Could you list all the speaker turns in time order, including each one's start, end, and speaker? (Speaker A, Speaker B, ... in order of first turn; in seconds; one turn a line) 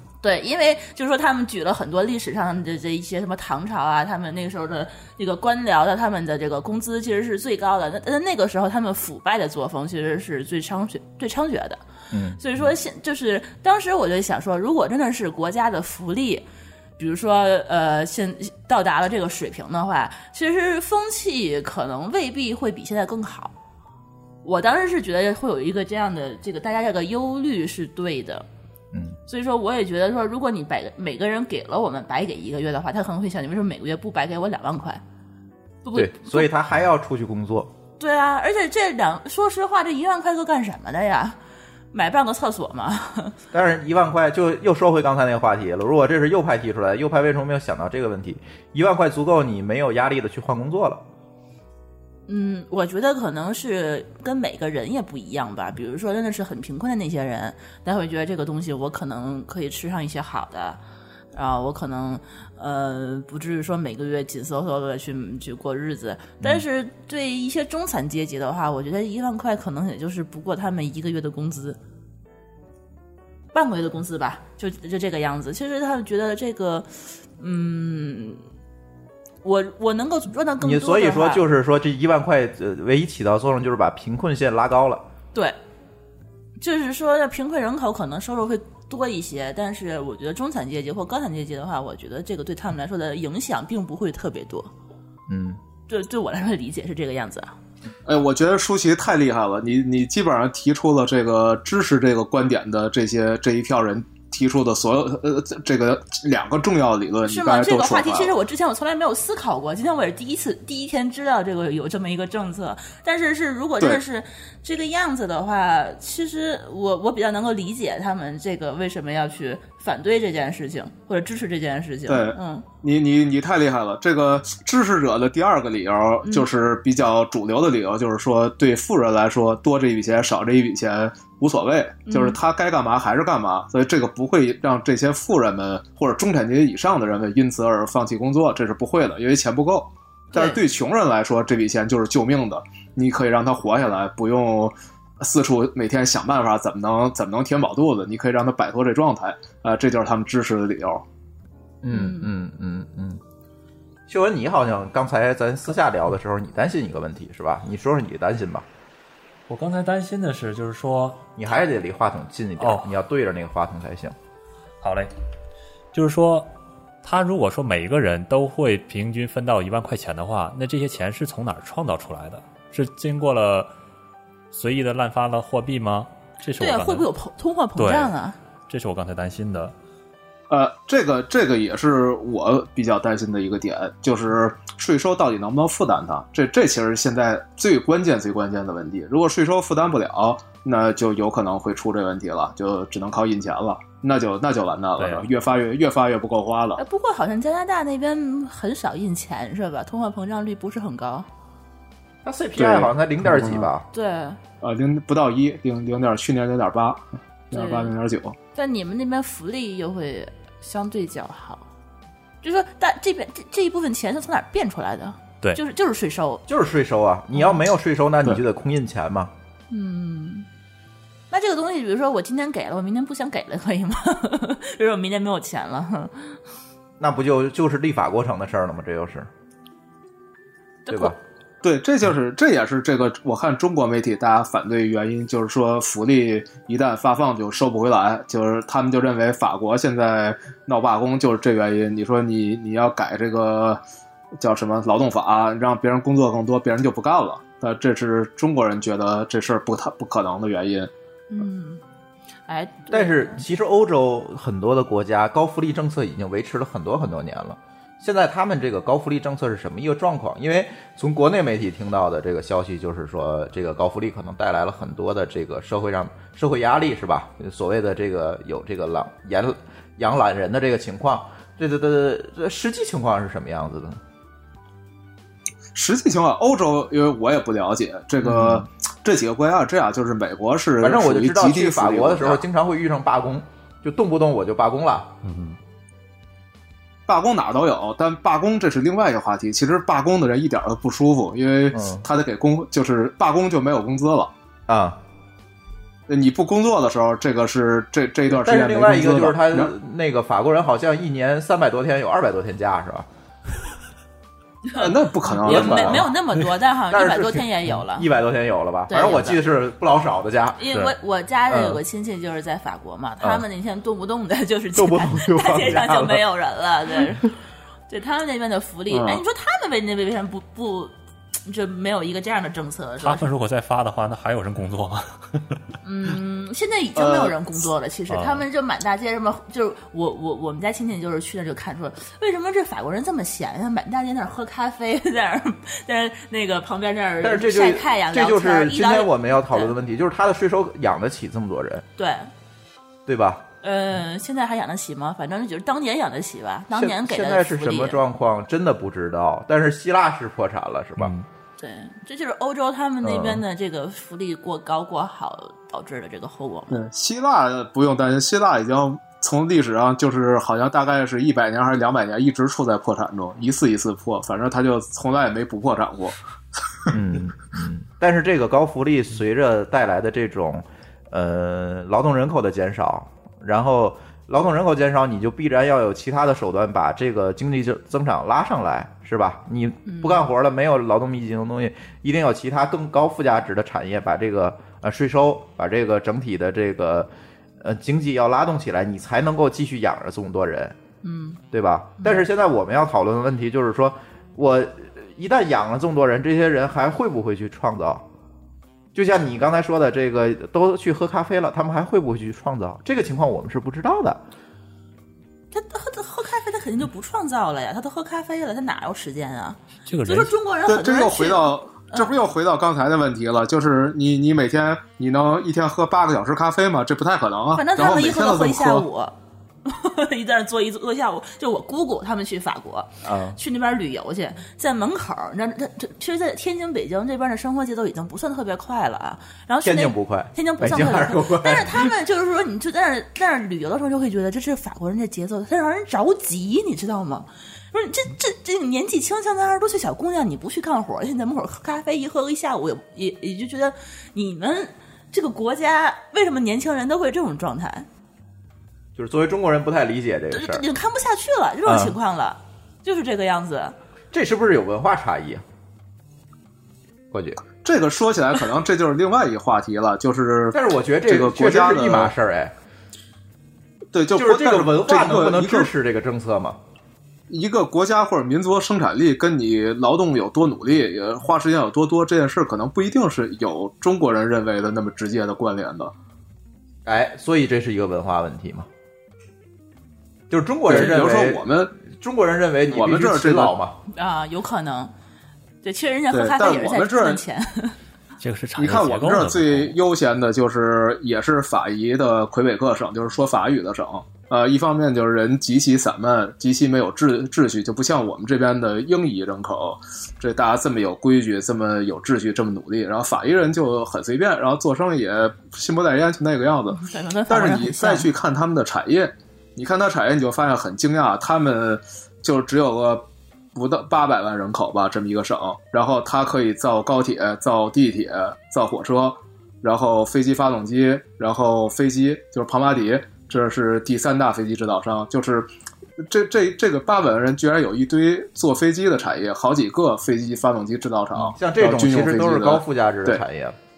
Speaker A: 0.2-11.8
Speaker B: 12.1-12.4
Speaker A: 12.4-16.4
Speaker A: 17.0-23.5
Speaker A: 24.4-28.4
Speaker B: 28.9-29.2
Speaker A: 29.3-35.0
Speaker A: 35.8-36.5
Speaker B: 35.9-37.7
Speaker A: 38.0-41.4
Speaker A: 41.9-43.4
Speaker B: 43.5-51.0
Speaker A: 52.3-60.8
Speaker A: 61.3-71.8
Speaker A: 73.5-78.4
Speaker A: 79.4-81.5
Speaker B: 80.6-85.0
Speaker A: 86.6-94.7
Speaker B: 95.3-95.6
Speaker A: 95.9-97.5
Speaker C: 98.0-108.3
Speaker A: 107.2-122.6
Speaker C: 122.1-151.0
Speaker A: 132.1-132.4
Speaker A: 140.3-140.6
Speaker B: 151.8-153.2
Speaker A: 151.9-152.3
Speaker B: 154.1-158.6
Speaker D: 159.5-161.2
Speaker B: 161.4-164.1
Speaker D: 162.6-162.9
Speaker D: 164.8-165.1
Speaker D: 165.9-166.5
Speaker D: 167.0-173.7
Speaker D: 174.5-177.1
Speaker A: 176.6-178.4
Speaker D: 177.8-178.1
Speaker D: 178.7-179.7
Speaker C: 180.5-196.8
Speaker D: 195.0-195.3
Speaker A: 196.8-201.3
Speaker B: 202.2-203.9
Speaker C: 202.6-203.7
Speaker A: 203.9-204.4
Speaker C: 204.6-208.4
Speaker A: 207.5-207.9
Speaker A: 208.5-211.7
Speaker A: 212.4-216.4
Speaker B: 216.5-219.3
Speaker A: 217.3-217.6
Speaker A: 219.7-220.5
Speaker A: 221.3-226.3
Speaker B: 227.0-229.3
Speaker A: 230.8-231.1
Speaker B: 230.9-231.2
Speaker C: 231.6-243.8
Speaker C: 244.4-250.9
Speaker A: 251.3-251.8
Speaker A: 252.5-253.4
Speaker B: 252.9-274.0
Speaker C: 275.7-282.4
Speaker B: 278.2-278.6
Speaker B: 280.8-285.1
Speaker D: 285.2-285.6
Speaker C: 287.1-294.3
Speaker B: 291.7-292.0
Speaker B: 294.7-295.0
Speaker C: 296.1-299.7
Speaker B: 298.3-303.1
Speaker C: 304.7-306.1
Speaker B: 305.4-306.1
Speaker A: 305.4-308.1
Speaker B: 306.9-310.6
Speaker A: 308.9-309.4
Speaker A: 310.6-317.4
Speaker B: 311.5-311.8
Speaker B: 314.7-316.2
Speaker A: 317.9-320.9
Speaker C: 318.9-319.2
Speaker A: 321.4-323.3
Speaker D: 323.0-325.4
Speaker A: 325.8-339.7
Speaker C: 326.9-327.4
Speaker D: 328.1-328.4
Speaker B: 337.2-341.8
Speaker A: 342.0-342.3
Speaker B: 343.1-343.4
Speaker A: 343.6-348.0
Speaker B: 346.7-351.1
Speaker D: 351.0-351.3
Speaker A: 351.6-356.7
Speaker B: 353.0-353.4
Speaker C: 356.7-366.1
Speaker B: 366.9-390.8
Speaker A: 379.9-380.3
Speaker A: 391.0-391.4
Speaker B: 391.5-398.1
Speaker B: 398.9-404.2
Speaker A: 405.5-412.1
Speaker D: 409.9-410.3
Speaker C: 410.6-418.9
Speaker A: 417.5-447.9
Speaker B: 423.0-423.4
Speaker B: 429.6-431.9
Speaker B: 448.9-450.6
Speaker A: 450.3-453.7
Speaker B: 451.6-452.0
Speaker B: 454.1-455.4
Speaker B: 457.1-457.4
Speaker C: 457.5-462.1
Speaker B: 460.5-462.5
Speaker C: 463.9-465.7
Speaker B: 464.1-466.6
Speaker C: 467.3-475.9
Speaker B: 476.8-478.7
Speaker B: 480.3-483.8
Speaker C: 480.7-481.7
Speaker C: 482.6-483.5
Speaker A: 483.9-484.9
Speaker A: 485.6-487.7
Speaker C: 486.1-487.2
Speaker D: 488.2-489.8
Speaker C: 488.6-533.2
Speaker A: 506.7-508.1
Speaker B: 531.1-533.5